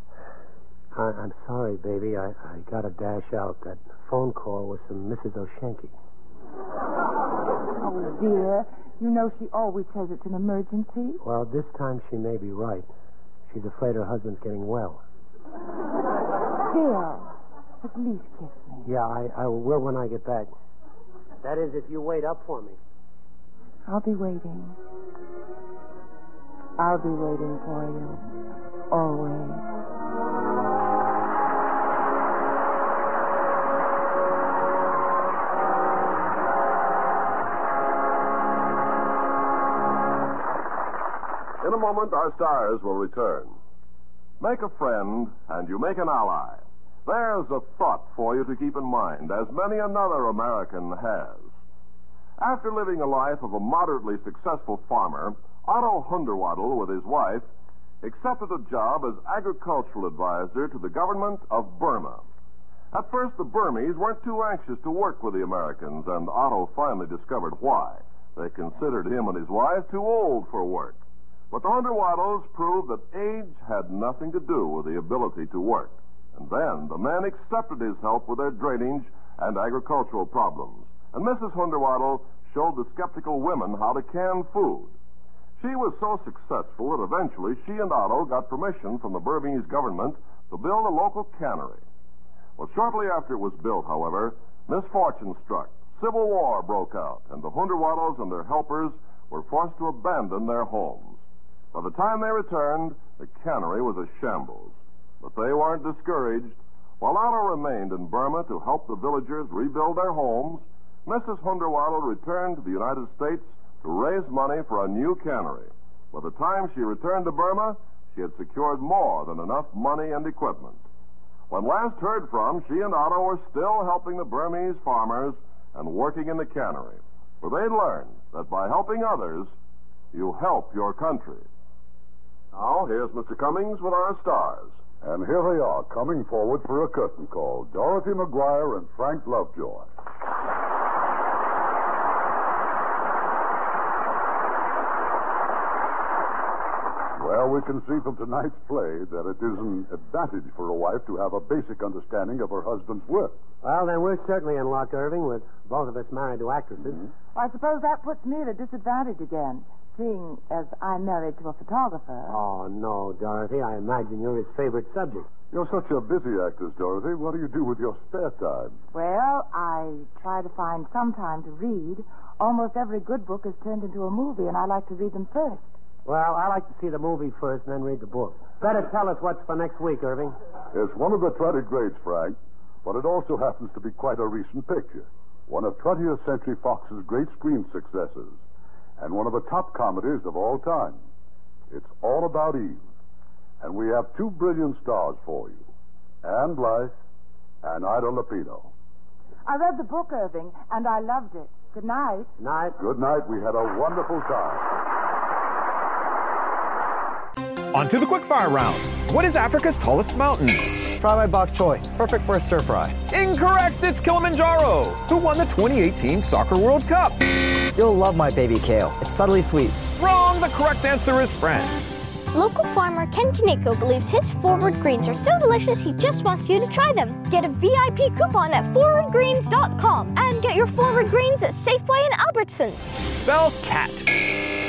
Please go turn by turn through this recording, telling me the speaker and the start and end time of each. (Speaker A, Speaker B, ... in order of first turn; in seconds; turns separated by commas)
Speaker A: 0.9-6.0, Speaker B: 7.8-11.2, Speaker A: 11.2-12.9, Speaker A: 13.5-15.0, Speaker B: 16.6-18.9, Speaker A: 18.8-20.5, Speaker A: 21.4-22.8, Speaker B: 23.9-24.8, Speaker B: 26.8-28.3, Speaker B: 28.9-29.7, Speaker C: 41.6-43.6, Speaker C: 44.4-51.5, Speaker C: 52.4-57.5, Speaker C: 58.0-62.3, Speaker C: 62.9-71.0, Speaker C: 71.5-84.9, Speaker C: 85.6-91.8, Speaker C: 92.6-101.2, Speaker C: 101.7-120.8, Speaker C: 121.5-129.5, Speaker C: 130.1-131.5, Speaker C: 132.5-134.8, Speaker D: 135.0-139.9, Speaker D: 147.2-153.4, Speaker A: 153.6-157.1, Speaker B: 157.3-162.4, Speaker A: 162.3-165.3, Speaker D: 165.5-168.8, Speaker B: 168.9-175.7, Speaker A: 176.1-180.4, Speaker D: 180.7-188.4, Speaker D: 189.0-191.0, Speaker D: 191.7-192.8, Speaker D: 193.6-195.7, Speaker D: 196.2-196.9, Speaker D: 197.6-198.7, Speaker B: 199.4-202.3, Speaker A: 202.4-202.8, Speaker D: 202.8-204.7, Speaker E: 207.7-210.9, Speaker F: 210.9-213.0, Speaker E: 213.1-217.4, Speaker F: 217.7-219.8, Speaker E: 219.9-221.9, Speaker G: 222.3-232.9, Speaker E: 233.0-234.5